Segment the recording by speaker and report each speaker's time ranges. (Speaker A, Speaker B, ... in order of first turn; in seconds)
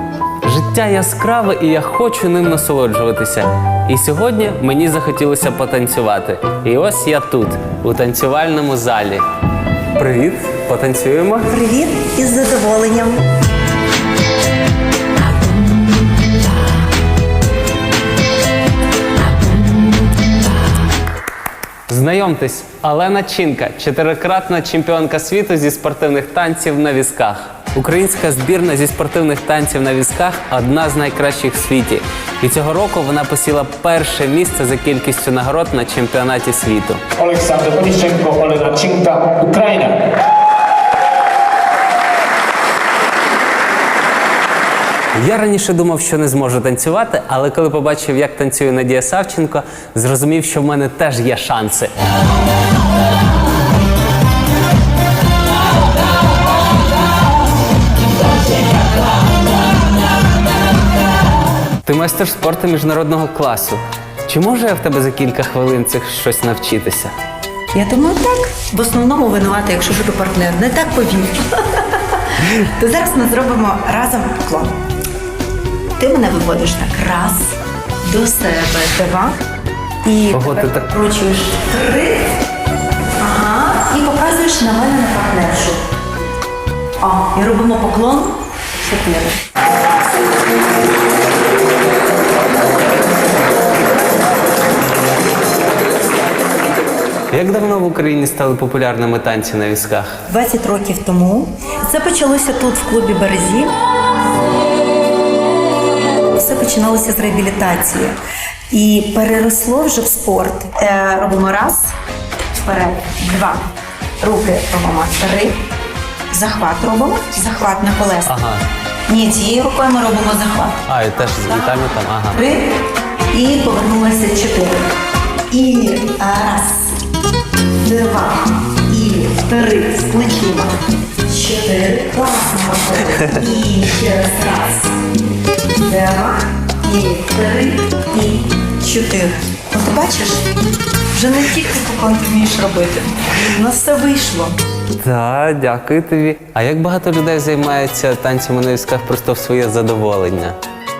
Speaker A: 0.4-9.2, 9.9-11.5, 21.9-37.0, 45.1-51.9, 61.8-67.1, 80.3-80.9, 97.3-100.2, 118.2-118.6, 120.8-122.4, 145.0-150.6
Speaker B: 11.5-13.2, 67.7-74.7, 76.0-79.4, 80.0-82.3, 83.2-85.8, 87.0-89.4, 100.3-103.7, 106.3-108.1, 108.7-111.9, 112.5-113.7, 114.2-115.5, 116.3-118.3, 119.1-120.8, 121.4-121.8, 122.3-122.7, 123.3-124.8, 125.5-126.9, 127.8-130.8, 131.3-134.9, 135.8-140.4, 141.1-144.6
Speaker C: 37.2-40.1